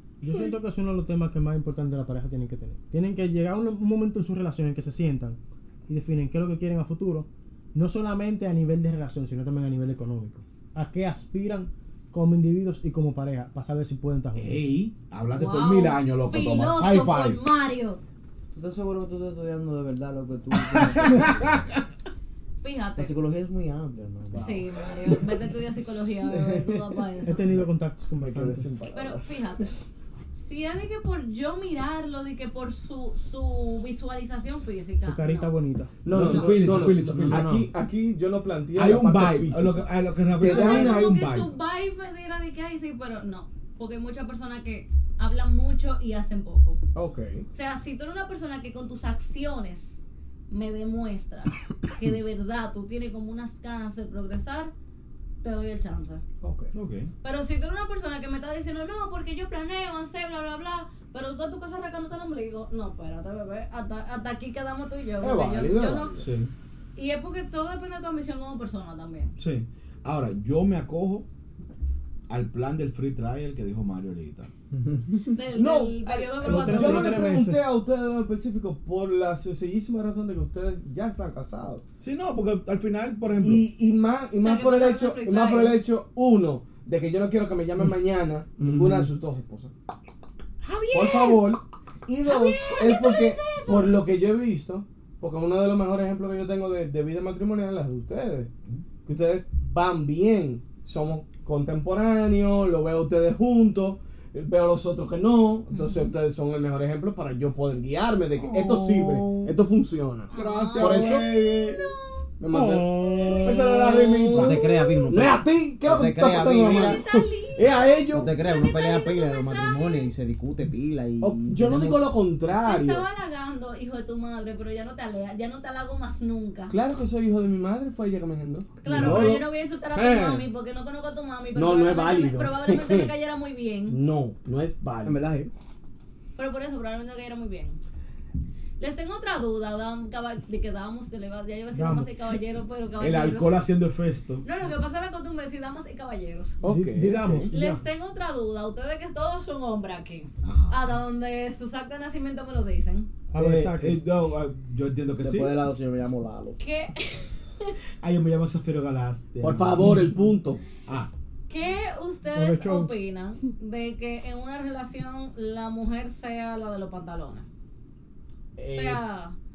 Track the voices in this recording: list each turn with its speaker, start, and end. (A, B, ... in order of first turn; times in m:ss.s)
0:00.2-0:14.6 A
0:00.3-0:00.5 B
0:14.4-0:17.4 C
0:15.3-0:18.0 D
0:18.5-0:21.6 E
0:20.7-0:21.4 C
0:22.6-0:23.1 D
0:23.0-0:24.6 E
0:24.3-0:24.7 B
0:24.3-0:27.6 D
0:26.3-0:26.6 E
0:27.2-0:28.8 A
0:28.2-0:29.7 B
0:28.9-0:29.8 D
0:30.3-0:35.5 D
0:35.0-0:36.0 A
0:36.0-0:41.1 B
0:36.1-0:37.5 C
0:36.1-0:37.7 E
0:38.8-0:41.5 C
0:40.4-0:46.8 D
0:46.9-0:47.4 B
0:47.5-0:50.0 D
0:50.5-0:54.7 D
0:55.4-0:56.2 D
0:56.4-0:56.7 B
0:56.7-0:57.1 C
0:57.2-1:06.2 D
1:05.2-1:06.2 B
1:06.2-1:06.5 C
1:07.0-1:09.3 D
1:09.4-1:11.2 C
1:12.3-1:14.5 C
1:15.3-1:17.3 D
1:15.5-1:21.8 B
1:16.4-1:17.6 A
1:22.0-1:23.6 C
1:23.4-1:29.7 B
1:24.4-1:25.8 D
1:28.6-1:29.0 E
1:30.9-1:38.5 B
1:32.2-1:33.9 D
1:39.0-1:51.3 B
1:45.7-1:46.1 D
1:48.4-1:49.5 C
1:50.3-1:52.2 D
1:50.3-1:51.9 C
1:52.4-1:58.3 B
1:52.5-1:53.5 A
1:53.3-1:54.6 C
1:54.3-1:57.0 E
1:56.6-2:00.1 D
1:58.1-2:02.1 E
2:01.2-2:03.0 B
2:02.5-2:06.7 D
2:06.7-2:10.5 B
2:08.8-2:14.0 D
2:08.9-2:09.4 C
2:11.5-2:13.1 B
2:13.9-2:15.2 B
2:15.0-2:15.5 E
2:16.4-2:17.8 D
2:18.8-2:23.7 D
2:21.7-2:22.1 A
2:23.0-2:24.4 C
2:24.4-2:26.6 D
2:26.6-2:27.5 B
2:26.6-2:27.8 A
2:27.5-2:33.1 D
2:30.4-2:30.8 C
2:33.3-2:34.0 A
2:33.4-2:35.6 C
2:35.2-2:36.6 E
2:36.6-2:37.7 D
2:38.0-2:40.1 C
2:39.4-2:40.6 B
2:41.5-2:47.5 D
2:42.3-2:42.9 A
2:48.6-2:49.0 B
2:48.7-2:49.4 D